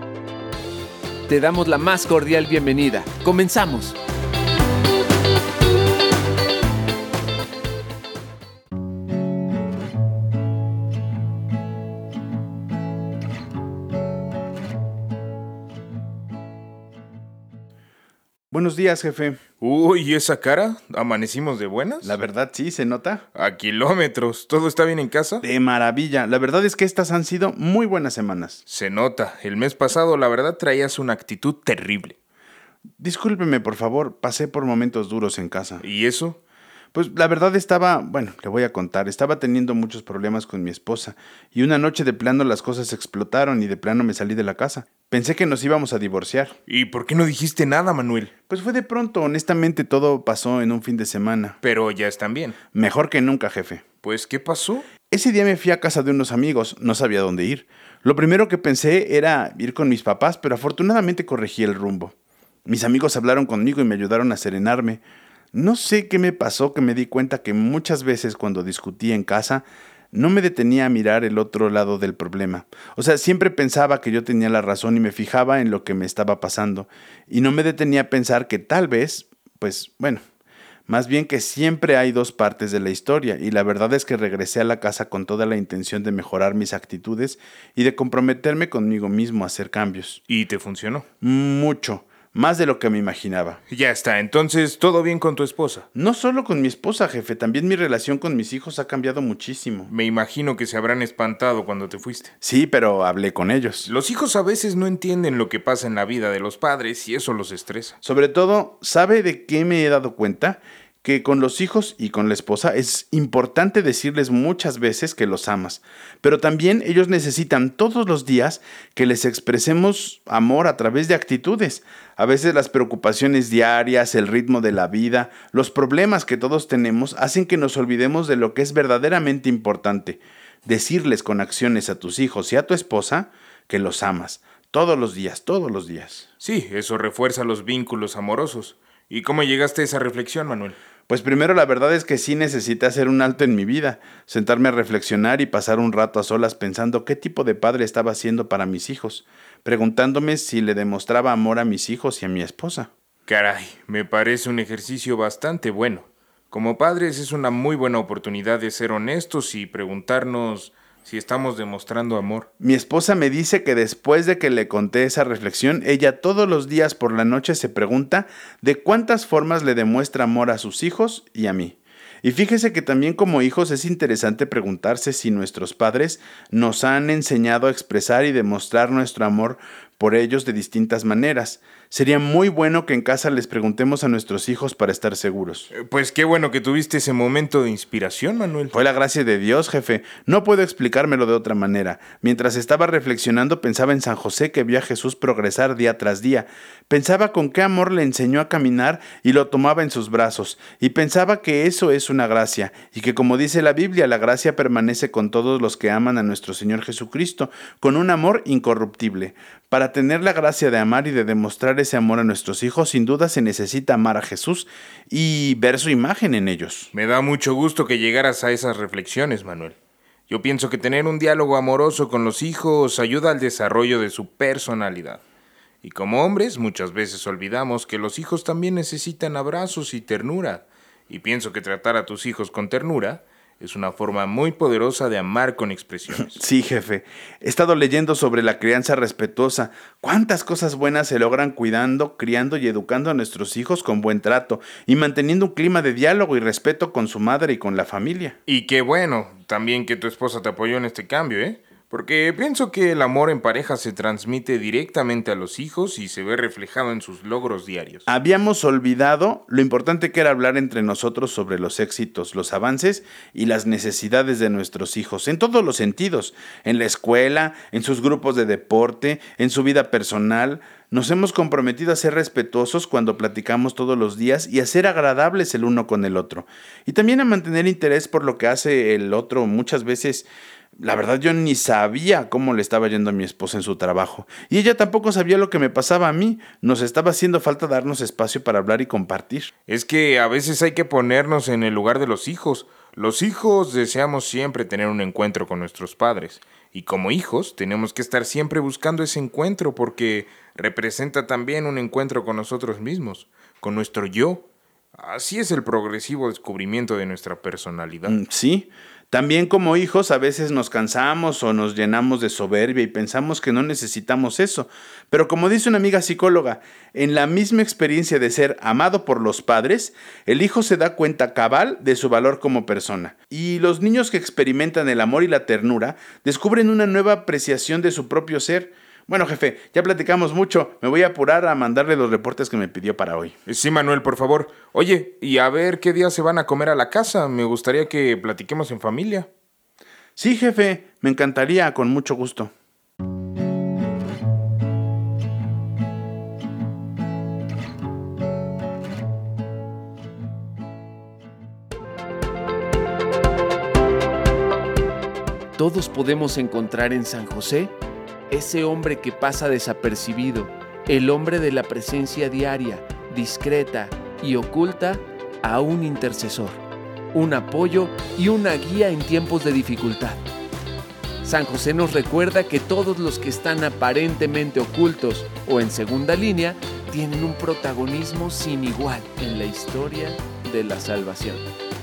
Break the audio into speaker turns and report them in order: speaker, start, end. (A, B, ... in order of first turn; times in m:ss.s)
0:01.3-0:04.0 A
0:18.5-0:19.4 B
0:19.6-0:22.2 C
0:22.0-0:23.2 B
0:23.4-0:25.4 C
0:25.4-0:28.6 B
0:28.7-0:32.2 C
0:33.0-0:35.8 B
0:35.8-0:36.4 C
0:36.9-0:46.6 B
0:46.7-0:48.3 C
0:48.5-0:51.6 B
0:51.6-0:52.6 C
0:52.7-0:53.8 B
0:54.0-0:54.9 C
0:55.1-1:02.2 B
1:02.7-1:05.0 B
1:05.5-1:20.2 B
1:20.9-1:30.2 B
1:30.3-1:31.0 C
1:31.2-1:33.6 B
1:33.7-1:35.9 C
1:36.0-1:39.9 B
1:39.9-1:42.3 C
1:42.4-1:43.9 B
1:43.9-1:48.0 C
1:48.0-2:16.3 B
2:16.4-2:20.8 C
2:21.1-2:32.9 B
2:33.3-2:42.5 C
2:42.6-3:05.7 B
3:05.7-3:08.8 C
3:08.7-3:36.9 B
3:36.9-3:39.8 C
3:40.3-3:45.2 C
3:45.8-3:56.4 C
3:56.1-4:08.4 B
4:08.5-4:18.1 C
4:18.1-4:49.5 B
4:49.7-5:08.2 C
5:08.0-5:33.4 B
5:33.5-5:39.3 C
5:40.2-5:42.5 B
5:55.6-5:57.7 A
5:58.3-6:06.6 A
6:07.1-6:10.2 A
6:11.2-6:21.5 A